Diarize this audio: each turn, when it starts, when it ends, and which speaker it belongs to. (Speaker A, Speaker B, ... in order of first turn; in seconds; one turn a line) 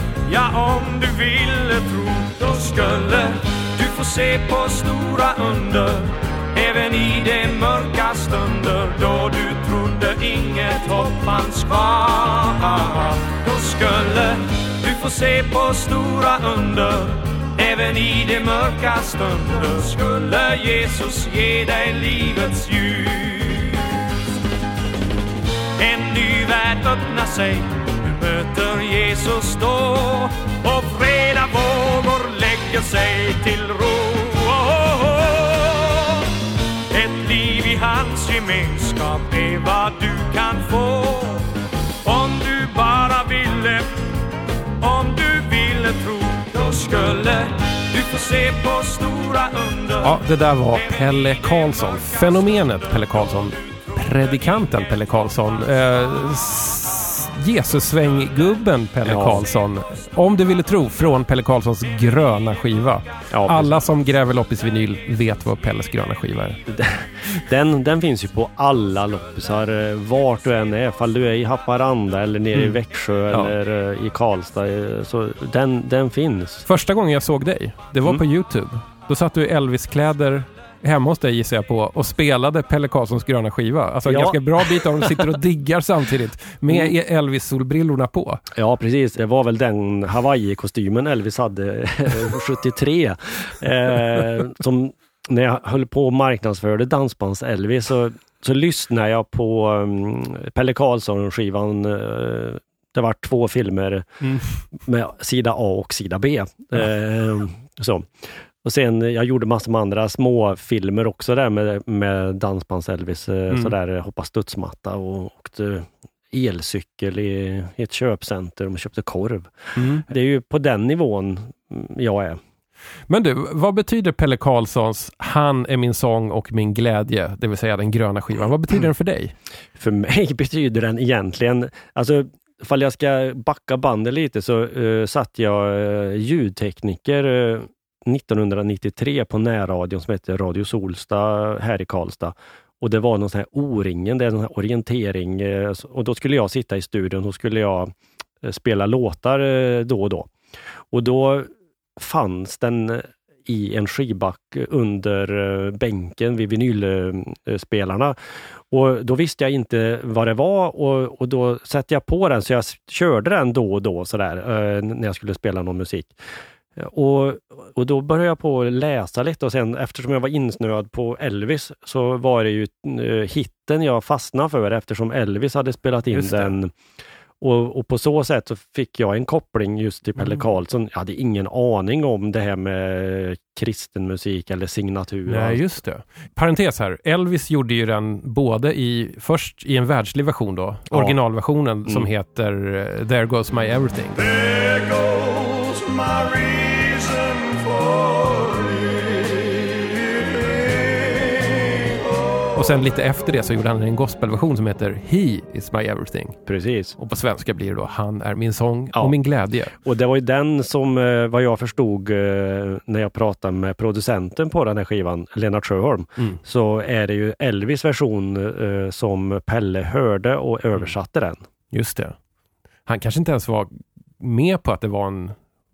Speaker A: 0.3-23.8
Speaker A: 25.8-36.2
Speaker A: 36.9-41.5
Speaker A: 42.0-44.0
Speaker A: 44.8-50.2
Speaker B: 50.0-66.6
Speaker C: 59.0-59.4
Speaker C: 63.3-63.8
Speaker C: 66.7-76.7
Speaker B: 76.7-88.4
Speaker C: 84.0-85.2
Speaker C: 88.5-104.1
Speaker B: 104.2-104.6
Speaker C: 104.8-122.4
Speaker B: 113.5-113.7
Speaker B: 119.8-120.0
Speaker B: 123.1-129.3
Speaker C: 129.8-150.3
Speaker C: 150.9-158.2
Speaker C: 158.7-166.1
Speaker C: 166.8-176.7
Speaker B: 176.1-176.5
Speaker C: 177.4-185.7
Speaker B: 185.3-194.2
Speaker C: 190.9-191.2
Speaker B: 202.5-206.4
Speaker C: 206.4-206.9
Speaker B: 207.0-209.8
Speaker C: 209.8-221.4
Speaker B: 221.7-222.2
Speaker B: 222.8-225.4